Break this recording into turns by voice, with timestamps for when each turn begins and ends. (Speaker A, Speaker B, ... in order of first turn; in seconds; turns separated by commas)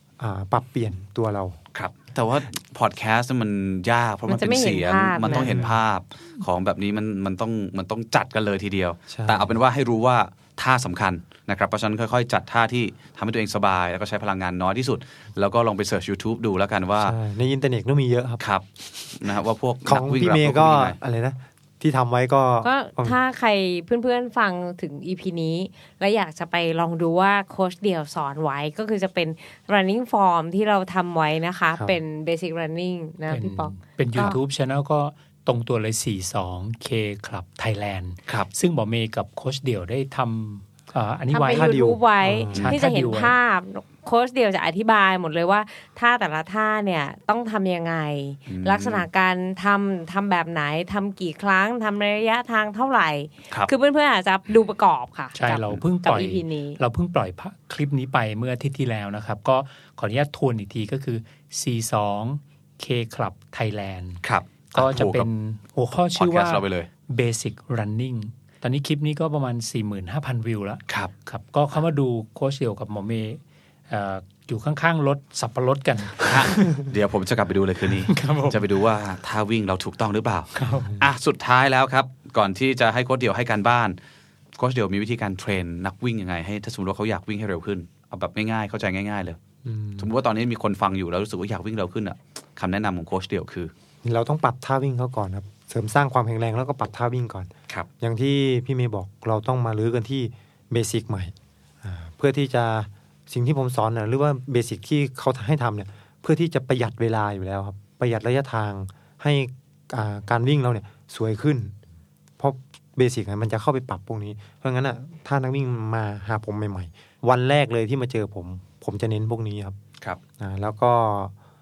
Speaker A: 0.2-1.6, Speaker B: 1.7-17.1, Speaker C: 4.3-5.6, Speaker A: 5.3-5.8, Speaker A: 9.1-9.5, Speaker A: 17.0-18.4, Speaker B: 18.4-21.0, Speaker A: 19.9-23.1, Speaker C: 22.6-34.4, Speaker D: 33.3-41.8, Speaker C: 41.3-56.8, Speaker A: 41.5-42.5, Speaker D: 42.5-43.4, Speaker B: 48.5-49.1, Speaker D: 55.3-76.8, Speaker B: 64.2-65.2, Speaker B: 66.1-66.9, Speaker B: 76.2-84.0, Speaker D: 78.1-78.6, Speaker D: 80.6-80.9, Speaker A: 80.6-81.0, Speaker B: 84.6-89.4, Speaker A: 89.6-90.1, Speaker B: 90.0-93.7, Speaker A: 94.0-97.5, Speaker A: 98.0-111.7, Speaker A: 112.4-119.8, Speaker A: 120.4-121.3